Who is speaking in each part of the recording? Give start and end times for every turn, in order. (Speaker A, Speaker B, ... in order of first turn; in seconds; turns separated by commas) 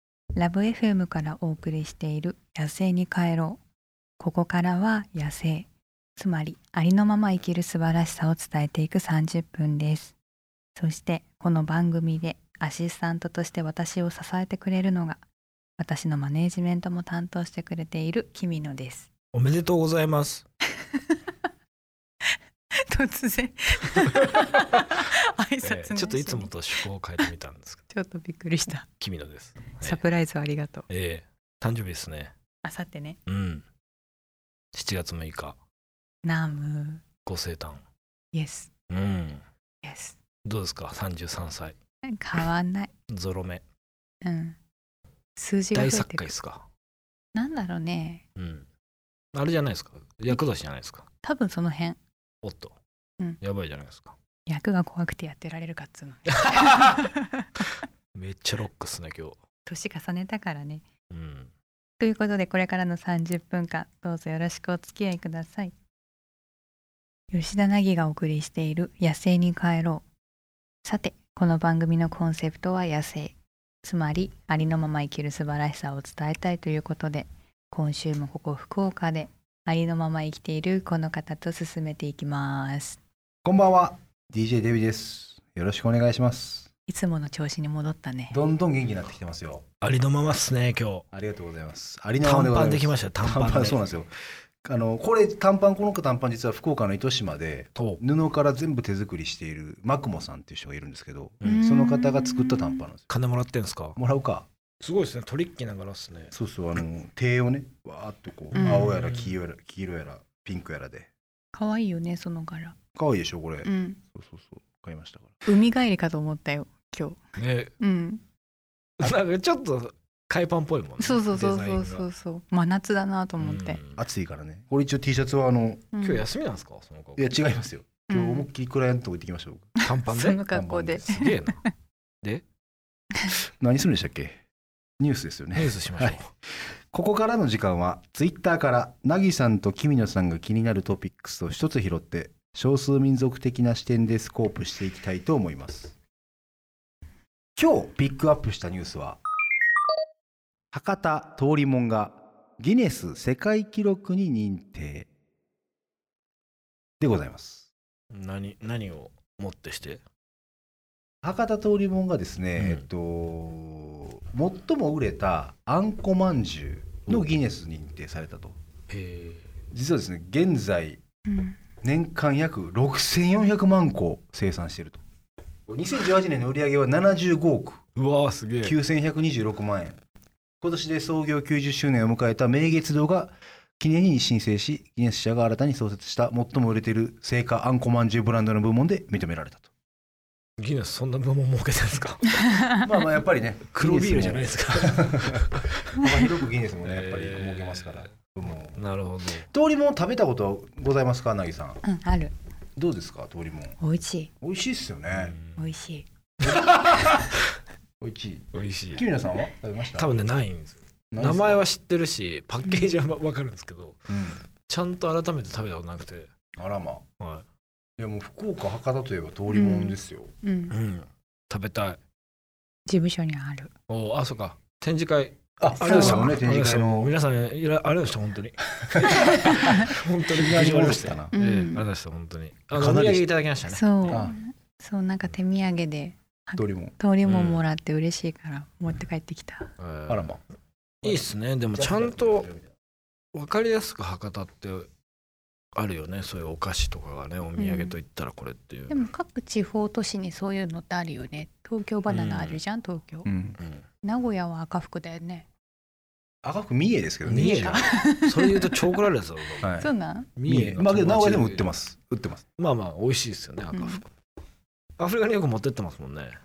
Speaker A: 0.4-3.6, Speaker A: 4.2-10.2, Speaker A: 10.8-15.2, Speaker A: 15.8-19.1, Speaker B: 19.3-20.4, Speaker A: 20.8-21.2, Speaker A: 22.8-26.6, Speaker B: 25.6-27.8, Speaker A: 27.9-28.9, Speaker B: 29.0-30.0, Speaker A: 29.8-30.9, Speaker B: 30.9-32.3, Speaker A: 32.6-33.2, Speaker B: 33.3-33.6, Speaker B: 34.7-35.6, Speaker A: 36.2-37.0, Speaker B: 37.2-37.8, Speaker A: 38.3-38.7, Speaker B: 38.9-39.4, Speaker A: 39.8-40.2, Speaker B: 40.5-41.8, Speaker A: 42.0-42.9, Speaker B: 43.1-43.6, Speaker A: 44.2-44.6, Speaker A: 45.4-46.3, Speaker B: 45.7-46.7, Speaker A: 47.3-48.2, Speaker B: 48.4-48.7, Speaker B: 49.3-51.1, Speaker A: 51.2-52.0, Speaker B: 52.4-52.8, Speaker B: 53.4-54.1, Speaker A: 54.5-57.7, Speaker B: 56.3-57.0, Speaker B: 58.1-59.4, Speaker A: 59.7-60.9, Speaker B: 61.1-61.5, Speaker A: 62.0-65.8, Speaker A: 67.3-70.0, Speaker A: 70.8-83.0, Speaker C: 83.5-86.7, Speaker A: 86.9-88.4, Speaker C: 88.3-89.6, Speaker B: 89.8-91.0, Speaker C: 91.1-94.1, Speaker B: 92.2-94.0, Speaker C: 94.6-103.1, Speaker B: 97.8-98.0, Speaker B: 101.4-101.7, Speaker A: 101.4-102.8, Speaker B: 103.1-104.0, Speaker C: 104.0-104.5, Speaker B: 104.8-106.3, Speaker C: 106.3-111.1, Speaker A: 108.5-109.0, Speaker B: 108.6-109.4, Speaker A: 111.5-112.8, Speaker C: 113.0-115.4, Speaker A: 113.6-114.0, Speaker A: 115.5-117.2, Speaker B: 117.4-117.7, Speaker A: 117.8-118.2, Speaker B: 119.0-122.1, Speaker A: 121.0-123.8, Speaker B: 123.4-124.0, Speaker C: 124.0-125.9, Speaker A: 125.9-126.3, Speaker B: 126.0-127.3, Speaker C: 127.2-129.7, Speaker A: 128.1-128.5, Speaker A: 129.8-131.4, Speaker B: 129.8-131.6, Speaker C: 130.5-131.1, Speaker C: 133.6-134.4, Speaker C: 135.0-136.2, Speaker B: 135.6-136.3, Speaker C: 136.9-146.0, Speaker C: 147.6-149.2, Speaker C: 150.7-155.1, Speaker C: 157.0-157.7, Speaker B: 158.1-160.0, Speaker C: 161.2-168.6, Speaker B: 162.6-162.9, Speaker B: 168.9-169.5, Speaker C: 169.7-171.0, Speaker A: 171.3-171.6, Speaker C: 171.8-175.0, Speaker C: 175.7-177.8, Speaker B: 178.0-178.8, Speaker C: 178.6-180.0, Speaker C: 180.6-189.7, Speaker B: 190.6-192.5, Speaker C: 192.7-198.8, Speaker B: 193.7-195.7, Speaker B: 196.8-198.1, Speaker B: 198.7-199.5, Speaker C: 199.4-201.8, Speaker A: 201.8-202.3, Speaker C: 202.8-203.8, Speaker A: 203.8-204.3, Speaker C: 204.4-205.4, Speaker B: 205.1-205.6, Speaker A: 205.6-206.1, Speaker C: 206.4-206.9, Speaker B: 206.4-207.4, Speaker C: 208.0-210.2, Speaker B: 208.5-209.0, Speaker B: 209.9-214.1, Speaker C: 211.1-211.6, Speaker C: 214.1-214.4, Speaker B: 214.6-216.3, Speaker C: 216.6-217.1, Speaker B: 217.2-217.4, Speaker C: 218.0-220.3, Speaker A: 219.5-220.8, Speaker B: 220.7-222.0, Speaker A: 222.9-223.7, Speaker B: 223.9-234.2, Speaker C: 225.6-227.1, Speaker A: 225.8-226.4, Speaker C: 229.2-231.3, Speaker A: 229.3-229.8, Speaker A: 231.3-231.9, Speaker C: 232.7-233.3, Speaker A: 233.7-239.7, Speaker C: 234.1-234.3, Speaker C: 236.6-236.9, Speaker B: 237.2-237.6, Speaker B: 239.8-240.3, Speaker C: 240.1-240.4, Speaker C: 241.0-242.7, Speaker B: 241.0-242.5, Speaker B: 243.3-244.9, Speaker B: 245.8-249.0, Speaker A: 247.6-248.0, Speaker A: 248.9-253.3, Speaker B: 252.1-252.6, Speaker C: 253.2-253.6, Speaker B: 253.6-253.8, Speaker A: 254.0-255.5, Speaker C: 256.4-257.9, Speaker B: 257.2-259.8, Speaker A: 257.4-258.9, Speaker C: 259.6-259.9, Speaker A: 259.7-260.3, Speaker B: 260.4-261.7, Speaker C: 260.4-262.4, Speaker B: 262.6-264.1, Speaker A: 263.7-264.0, Speaker B: 265.0-266.4